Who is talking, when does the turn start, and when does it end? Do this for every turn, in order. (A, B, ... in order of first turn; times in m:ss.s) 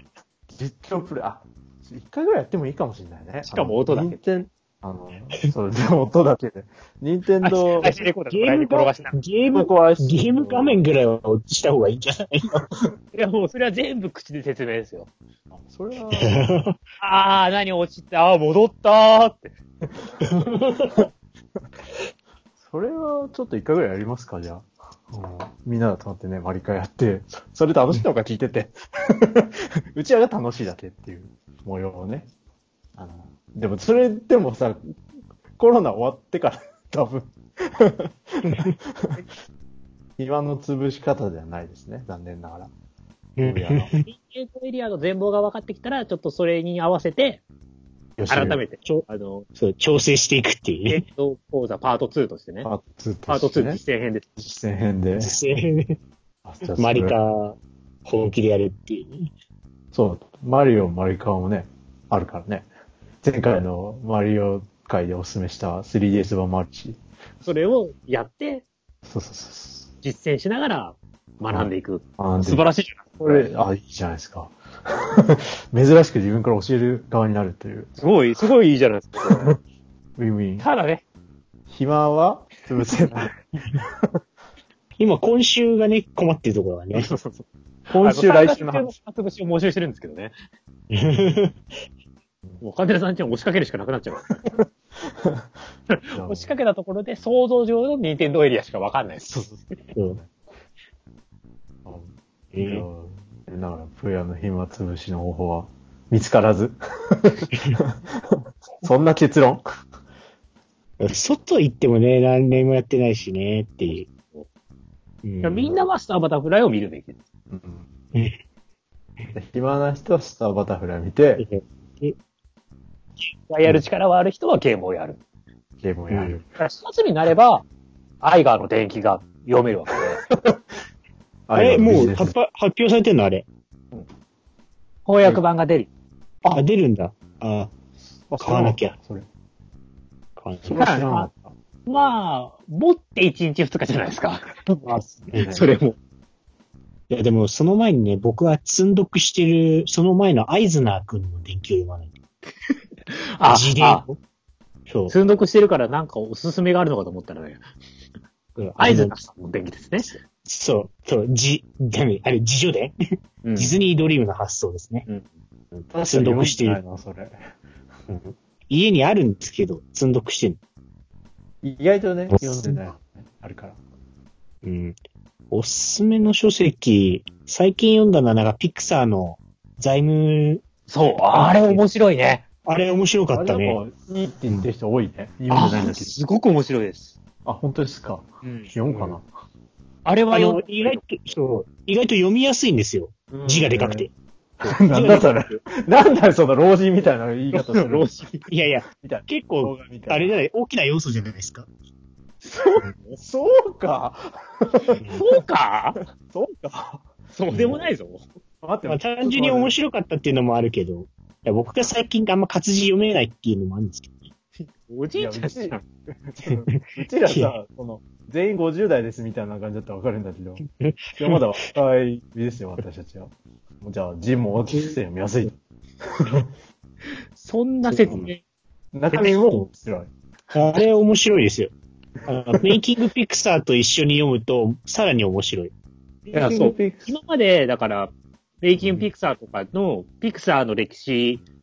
0:00.5-0:08.0 A
0:03.5-0:04.2 B
0:07.4-0:09.2 B
0:08.3-0:12.7 C
0:09.5-0:10.8 A
0:13.1-0:15.1 B
0:15.5-0:16.5 A
0:16.1-0:16.8 C
0:17.0-0:19.6 B
0:20.2-0:21.1 C
0:22.6-0:32.3 A
0:33.0-0:34.9 A
0:35.6-0:39.2 A
0:38.5-0:38.8 C
0:40.2-0:42.7 A
0:43.4-0:44.1 C
0:43.4-0:43.9 A
0:44.0-0:47.4 B
0:48.2-0:48.6 A
0:48.3-0:49.5 B
0:49.6-0:51.0 C
0:50.9-0:52.7 B
0:52.6-0:53.8 A
0:53.3-0:54.3 B
0:54.4-0:55.4 A
0:55.2-0:56.0 C
0:56.4-0:57.2 A
0:56.8-0:59.3 C
0:59.9-1:02.7 A
1:03.2-1:07.0 A
1:07.4-1:08.7 B
1:09.0-1:09.9 A
1:10.0-1:13.5 B
1:11.5-1:12.6 A
1:13.2-1:17.9 A
1:18.0-1:19.6 B
1:19.3-1:19.6 A
1:20.2-1:20.7 A
1:20.6-1:21.0 B
1:21.7-1:24.1 A
1:25.0-1:27.1 C
1:26.9-1:30.3 B
1:27.9-1:28.9 A
1:30.9-1:31.6 C
1:32.6-1:34.2 B
1:35.9-1:39.4 B
1:36.1-1:36.5 A
1:39.3-1:40.3 A
1:41.8-1:49.6 A
1:42.5-1:42.8 C
1:51.0-1:54.1 C
1:55.2-1:55.7 C
1:55.4-1:57.2 B
1:57.5-1:57.8 A
1:59.3-2:01.4 A
2:01.4-2:02.2 C
2:03.5-2:05.2 B
2:05.8-2:06.6 A
2:06.1-2:06.4 C
2:06.6-2:07.7 B
2:08.2-2:10.2 B
2:11.5-2:12.3 A
2:11.6-2:13.5 C
2:15.1-2:15.9 B
2:16.5-2:17.7 C
2:18.3-2:19.3 A
2:18.4-2:19.0 C
2:20.4-2:20.8 C
2:20.6-2:21.5 A
2:20.8-2:21.3 B
2:21.9-2:24.6 B
2:24.7-2:25.7 A
2:25.4-2:26.0 B
2:27.1-2:32.1 C
2:33.1-2:34.0 B
2:33.5-2:34.2 C
2:34.9-2:35.2 C
2:35.1-2:37.6 B
2:38.6-2:39.2 C
2:38.8-2:40.2 B
2:40.3-2:43.0 C
2:43.4-2:43.8 B
2:43.6-2:45.1 C
2:45.8-2:46.8 C
2:45.9-2:47.4 A
2:48.1-2:50.6 C
2:51.6-2:53.8 A
2:52.3-2:52.9 C
2:54.6-2:55.0 C
2:55.5-3:00.6 C
3:00.9-3:02.4 B
3:01.3-3:01.8 C
3:02.6-3:03.8 C
3:03.3-3:06.2 A
3:05.5-3:07.2 B
3:07.4-3:09.3 A
3:08.4-3:09.1 B
3:10.0-3:11.1 B
3:10.3-3:14.1 C
3:13.3-3:14.1 A
3:14.6-3:15.6 C
3:14.6-3:18.1 A
3:17.5-3:18.5 B
3:18.5-3:21.7 C
3:19.0-3:20.4 A
3:22.4-3:23.2 B
3:22.7-3:25.4 A
3:25.1-3:26.0 B
3:26.2-3:27.8 A
3:27.3-3:28.2 B
3:28.6-3:29.8 A
3:28.8-3:34.3 C
3:34.6-3:35.8 B
3:35.2-3:45.6 A
3:36.5-3:37.5 C
3:40.8-3:41.4 C
3:44.7-3:45.0 C
3:46.1-3:46.5 A
3:47.4-3:48.4 B
3:47.9-3:48.3 C
3:48.9-3:50.1 A
3:49.1-3:49.6 B
3:50.5-3:51.7 C
3:52.3-3:55.7 C
3:56.3-4:01.4 B
3:56.3-3:57.2 A
3:58.8-3:59.1 A